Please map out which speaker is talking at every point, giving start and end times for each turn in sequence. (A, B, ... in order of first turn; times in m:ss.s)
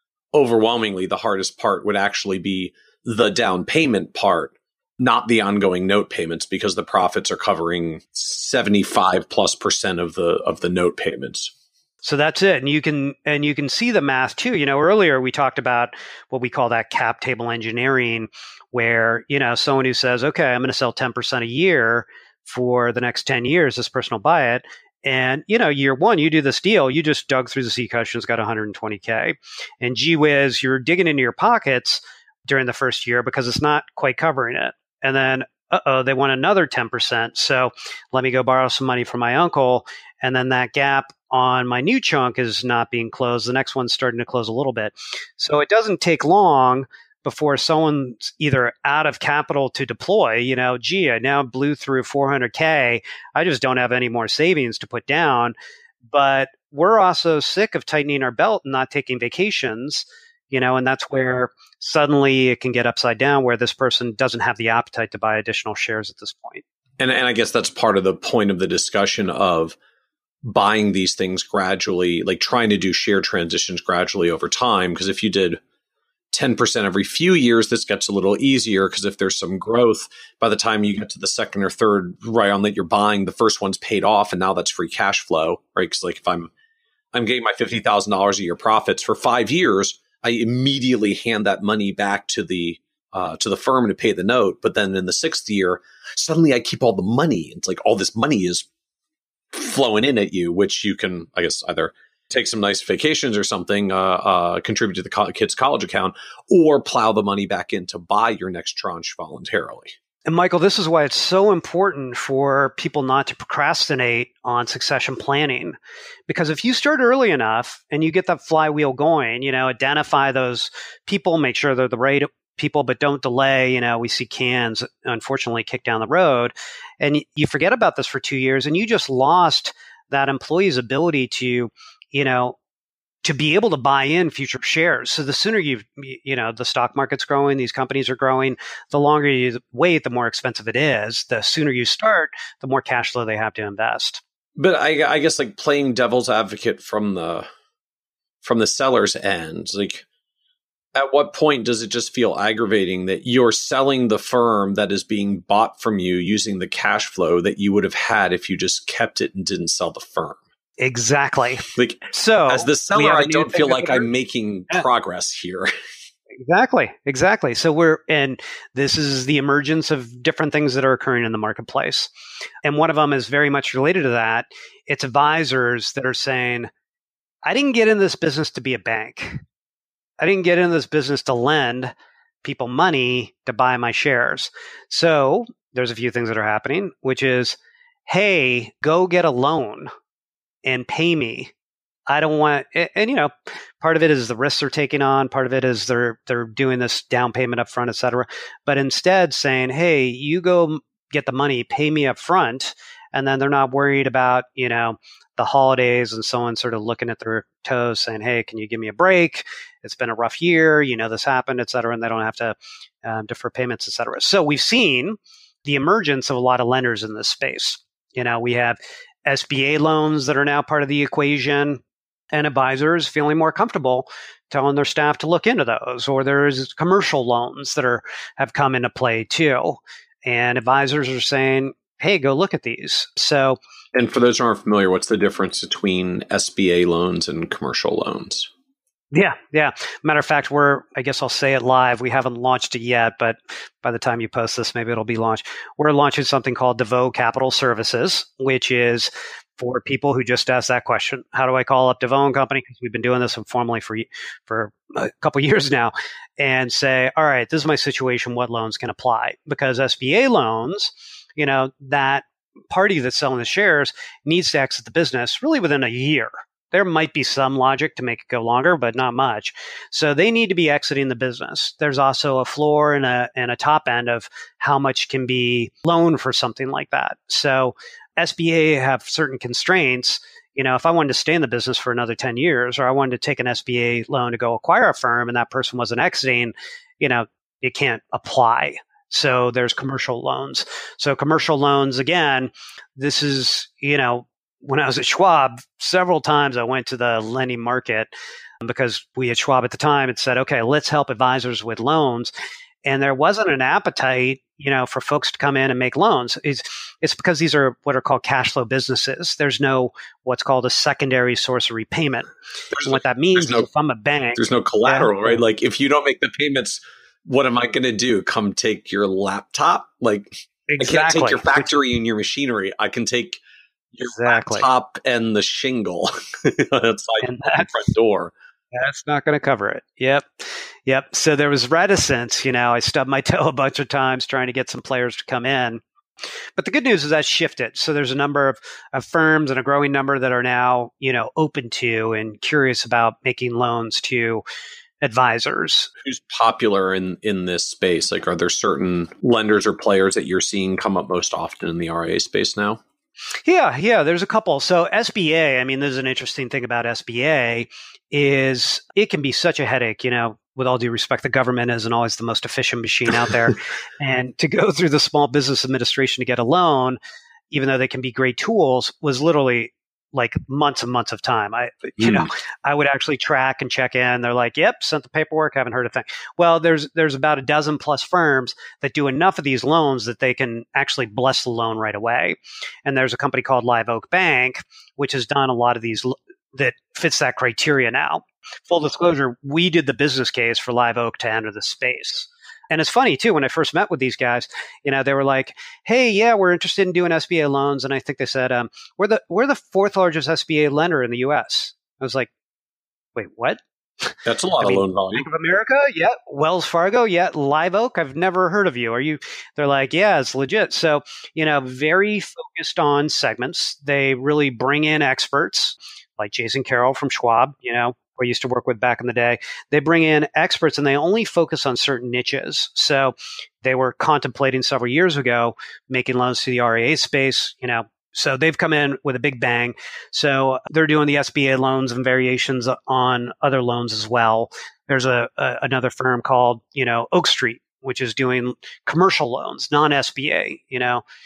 0:00.3-0:11.5 A
0:12.0-0:55.5 B
0:56.1-1:06.6 B
1:07.0-1:09.8 A
1:10.4-1:15.6 A
1:16.3-1:26.5 A
1:27.1-1:38.6 A
1:39.5-1:49.9 A
1:50.2-1:55.8 B
1:56.3-2:12.6 B
2:13.2-2:24.2 B
2:24.6-2:27.5 A
2:28.4-2:30.0 A
2:30.9-2:40.4 A
2:40.8-2:44.1 B
2:41.7-2:45.7 A
2:46.4-2:52.1 B
2:52.6-2:56.7 B
2:57.4-2:59.4 B
3:00.2-3:09.9 B
3:10.6-3:11.5 B
3:12.1-3:41.8 B
3:42.3-3:53.6 B
3:53.9-3:58.5 A
3:59.1-4:58.1 B
4:58.6-5:02.3 B
5:02.8-5:12.3 B
5:12.7-5:13.7 A
5:12.8-5:15.4 B
5:14.4-5:23.4 A
5:20.7-5:21.7 B
5:23.9-5:28.3 A
5:24.1-5:24.7 B
5:27.2-5:27.8 B
5:28.7-5:35.8 B
5:36.6-5:44.4 B
5:45.0-5:45.9 B
5:46.0-5:52.8 A
5:53.4-6:07.0 B
6:07.5-6:42.3 B
6:12.0-6:12.3 A
6:43.2-7:21.0 B
6:44.2-6:45.3 A